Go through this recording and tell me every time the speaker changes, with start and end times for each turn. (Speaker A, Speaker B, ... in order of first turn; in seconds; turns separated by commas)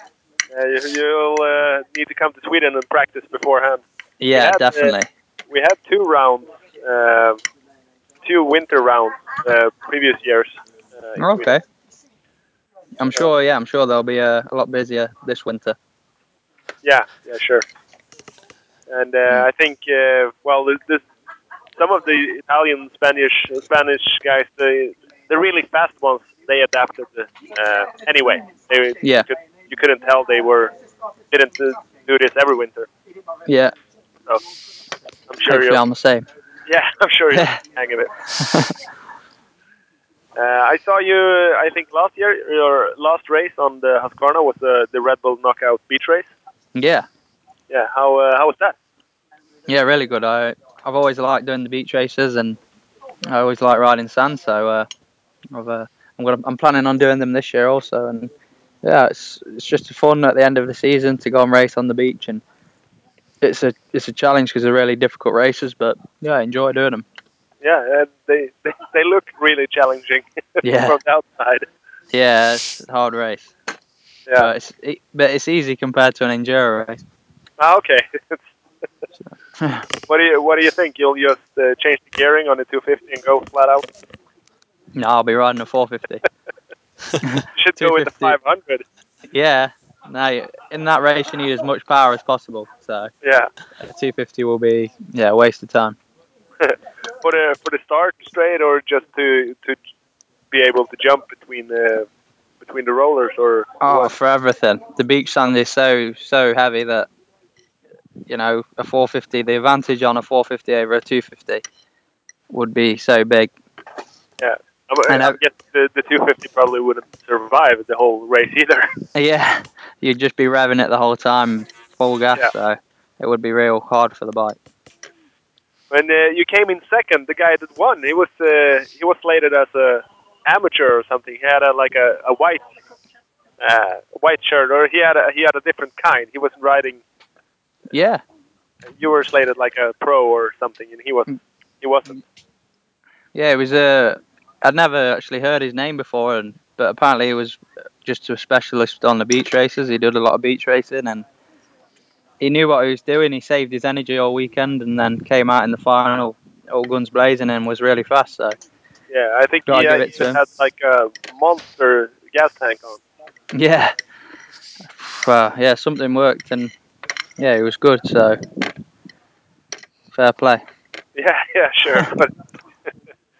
Speaker A: 0.5-4.9, Speaker B: 4.2-5.1, Speaker A: 5.5-7.4, Speaker A: 8.2-11.5, Speaker B: 11.2-11.6, Speaker B: 13.0-15.8, Speaker A: 16.8-17.6, Speaker A: 18.9-21.0, Speaker A: 21.8-30.7, Speaker B: 29.0-29.3, Speaker A: 31.3-32.9, Speaker B: 33.5-33.7, Speaker A: 35.3-35.8, Speaker B: 35.5-36.2, Speaker A: 36.7-38.2, Speaker B: 38.3-38.7, Speaker A: 40.4-46.3, Speaker B: 46.7-47.1, Speaker A: 47.7-48.7, Speaker B: 49.7-52.6, Speaker B: 53.3-54.9, Speaker B: 55.5-58.3, Speaker B: 58.8-62.4, Speaker B: 63.4-67.0, Speaker A: 67.6-71.7, Speaker B: 70.6-71.0, Speaker B: 72.1-73.5, Speaker B: 74.4-77.0, Speaker A: 77.6-78.5, Speaker B: 79.6-79.8, Speaker A: 80.1-83.8, Speaker B: 85.0-86.2, Speaker B: 87.2-88.4, Speaker A: 87.5-88.8, Speaker B: 89.3-93.1, Speaker A: 93.2-93.5, Speaker B: 93.8-96.0, Speaker A: 96.6-99.8, Speaker A: 100.5-102.1, Speaker A: 102.6-104.1, Speaker B: 103.8-107.1, Speaker B: 108.3-111.6, Speaker B: 112.5-113.5, Speaker A: 114.4-118.9, Speaker B: 115.1-115.4, Speaker B: 119.1-124.6, Speaker A: 125.9-132.6, Speaker A: 133.6-137.0, Speaker B: 137.9-138.2, Speaker A: 139.0-142.2, Speaker B: 143.3-151.2, Speaker B: 152.4-158.6, Speaker A: 159.1-163.0, Speaker B: 159.7-160.4, Speaker B: 163.5-163.9, Speaker B: 164.9-166.7, Speaker B: 167.4-168.4, Speaker B: 170.1-170.6, Speaker A: 171.2-172.3